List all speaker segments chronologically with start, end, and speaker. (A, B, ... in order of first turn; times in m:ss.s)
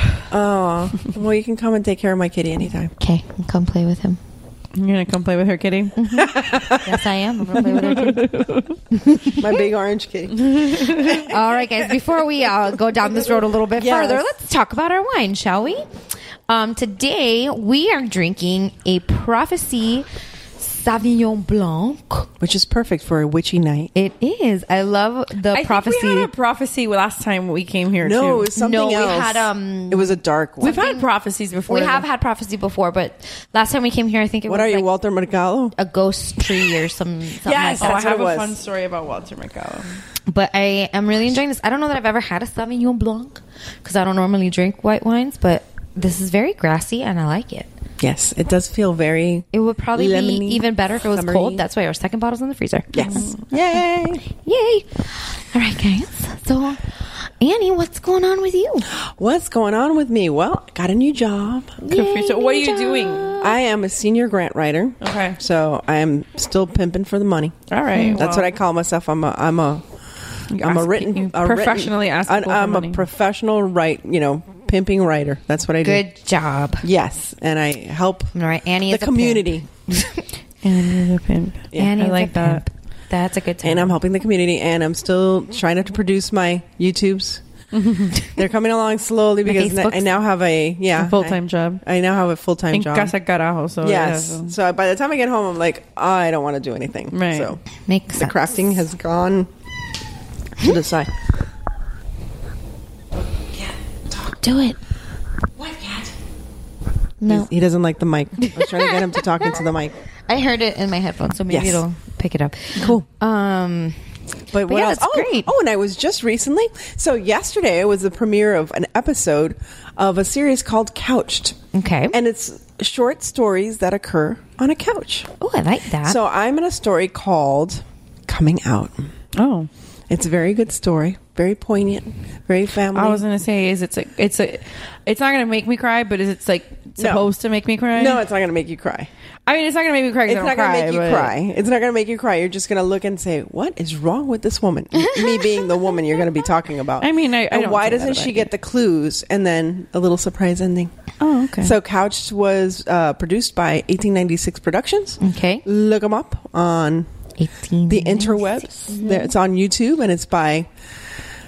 0:00.3-0:02.9 A
0:03.0-0:04.2 B
0:04.8-0:06.2 C
0:06.0-0:09.5 B
0:06.2-0:07.0 A
0:07.5-0:08.7 C
0:09.4-0:11.9 A
0:10.4-0:11.1 C
0:11.1-0:15.8 B
0:13.7-0:14.3 A
0:16.5-0:20.1 B
0:20.6-0:22.3 B
0:22.4-0:23.9 A
0:23.9-0:26.3 B
0:25.5-0:28.5 C
0:28.0-0:30.8 A
0:28.5-0:31.1 B
0:30.6-0:32.0 C
0:31.7-0:34.9 B
0:34.5-0:35.7 A
0:35.8-0:38.0 B
0:37.4-0:40.0 C
0:37.5-0:38.6 A
0:40.3-0:47.7 B
0:48.0-0:51.6 A
0:49.5-0:53.3 B
0:52.9-0:54.2 A
0:54.4-0:58.9 B
0:58.9-1:01.8 A
1:01.8-1:03.5 B
1:01.9-1:03.3 C
1:03.4-1:09.8 A
1:05.0-1:05.4 C
1:07.7-1:08.5 C
1:10.5-1:13.0 C
1:10.5-1:16.0 A
1:15.8-1:16.8 B
1:16.8-1:18.3 A
1:18.3-1:20.2 B
1:18.9-1:19.7 A
1:20.6-1:22.6 C
1:21.8-1:24.0 B
1:23.6-1:27.4 A
1:27.7-1:28.3 C
1:28.4-1:33.1 A
1:29.4-1:30.1 B
1:31.0-1:31.8 C
1:32.7-1:34.5 C
1:33.8-1:37.6 A
1:37.1-1:37.5 C
1:37.9-1:38.4 B
1:38.1-1:39.5 A
1:40.6-1:41.1 A
1:44.4-1:44.8 B
1:45.6-1:46.1 A
1:47.2-1:47.5 B
1:47.3-1:49.9 A
1:48.5-1:49.6 B
1:50.3-1:54.0 B
1:51.5-1:51.8 A
1:52.7-1:53.0 A
1:54.5-2:01.6 A
1:54.6-1:55.5 B
2:01.7-2:02.2 B
2:02.1-2:05.3 A
2:05.4-2:06.2 B
2:06.0-2:09.1 A
2:09.3-2:09.7 C
2:10.1-2:13.2 A
2:12.9-2:18.2 C
2:17.0-2:17.3 A
2:17.9-2:19.1 A
2:19.5-2:21.3 C
2:20.3-2:30.9 A
2:25.0-2:25.4 B
2:27.0-2:28.5 C
2:31.2-2:31.8 C
2:31.6-2:37.1 A
2:35.2-2:35.6 B
2:37.4-2:39.2 B
2:37.8-2:40.7 A